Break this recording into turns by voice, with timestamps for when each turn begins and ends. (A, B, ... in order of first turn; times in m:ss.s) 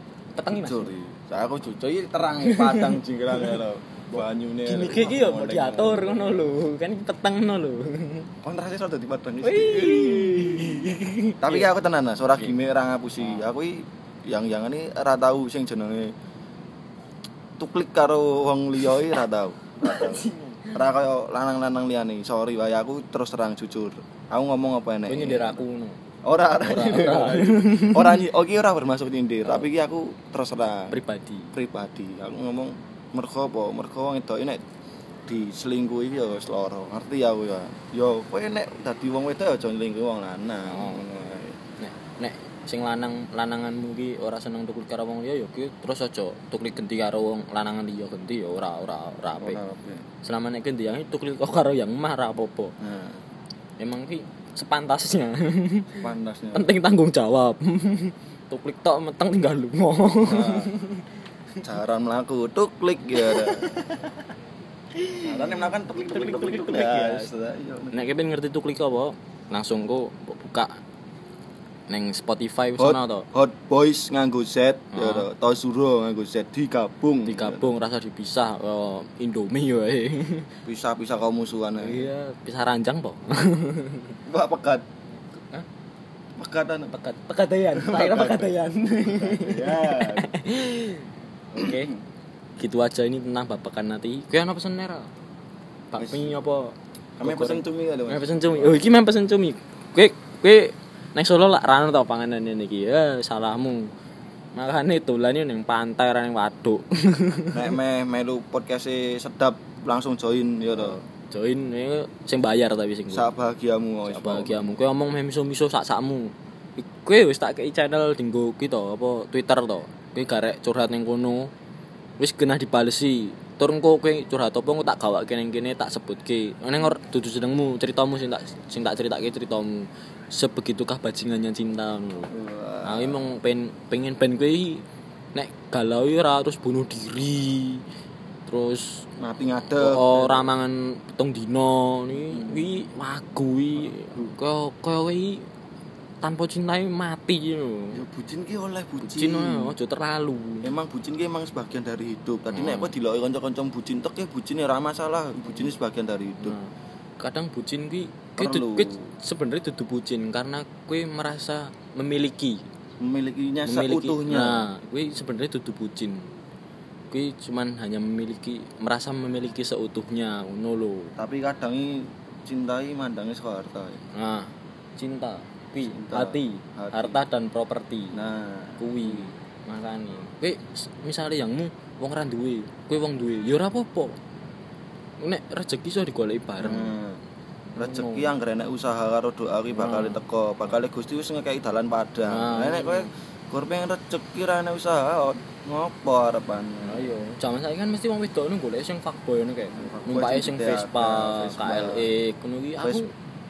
0:00.4-0:00.9 A
0:00.5-0:06.5 B
0:02.4-0:03.6 A
0:04.1-0:08.3 A
0:08.4-0:16.1 B
0:09.4-0:11.7 A
0:13.2-0:13.5 A
0:17.6-0:25.6 B
0:19.8-0:20.8 A
0:25.1-0:26.0 A
0:26.2-0:31.0 B
0:26.6-0:28.2 A
0:30.9-0:31.5 A
0:31.5-0:34.6 B
0:35.3-0:41.6 B
0:40.7-0:41.1 A
0:41.8-0:49.6 A
0:49.4-0:50.0 B
0:50.2-0:52.8 A
0:52.8-0:53.2 B
0:53.8-1:01.1 A
0:56.0-0:56.7 B
1:00.2-1:00.7 B
1:01.6-1:03.8 B
1:03.2-1:04.3 A
1:04.9-1:07.3 A
1:05.2-1:08.0 B
1:07.9-1:10.8 A
1:11.9-1:13.3 A
1:12.8-1:17.7 B
1:14.9-1:15.3 A
1:17.3-1:20.5 A
1:20.6-1:22.0 B
1:21.8-1:24.2 A
1:24.3-1:24.8 B
1:26.4-1:26.9 B
1:26.9-1:31.9 A
1:27.7-1:30.3 B
1:31.5-1:32.0 B
1:32.6-1:35.1 A
1:35.9-1:43.9 A
1:36.0-1:36.4 B
1:37.2-1:38.9 B
1:44.6-1:47.8 A
1:47.5-1:51.0 B
1:50.7-1:53.3 A
1:53.1-1:54.7 B
1:54.0-2:01.5 A
2:02.2-2:12.3 A
2:12.3-2:13.4 B
2:12.8-2:17.8 A
2:18.5-2:19.1 A
2:19.2-2:20.5 B
2:19.7-2:25.5 A
2:22.3-2:22.9 B
2:26.2-2:28.0 A
2:27.9-2:29.8 B
2:29.0-2:30.8 A
2:30.6-2:36.6 B
2:32.5-2:32.9 A
2:36.4-2:42.7 A
2:38.4-2:39.1 B
2:43.0-2:44.6 B
2:43.6-2:46.3 A
2:47.1-2:51.2 A
2:51.2-2:54.0 B
2:54.1-2:58.2 A
2:55.8-2:57.2 B
2:58.1-2:59.3 B
2:58.8-3:04.2 A
3:05.2-3:07.0 A
3:06.6-3:07.2 B
3:07.8-3:08.3 A
3:07.8-3:17.2 B
3:09.7-3:10.2 A
3:12.2-3:13.1 A
3:16.8-3:23.1 A
3:19.7-3:22.1 B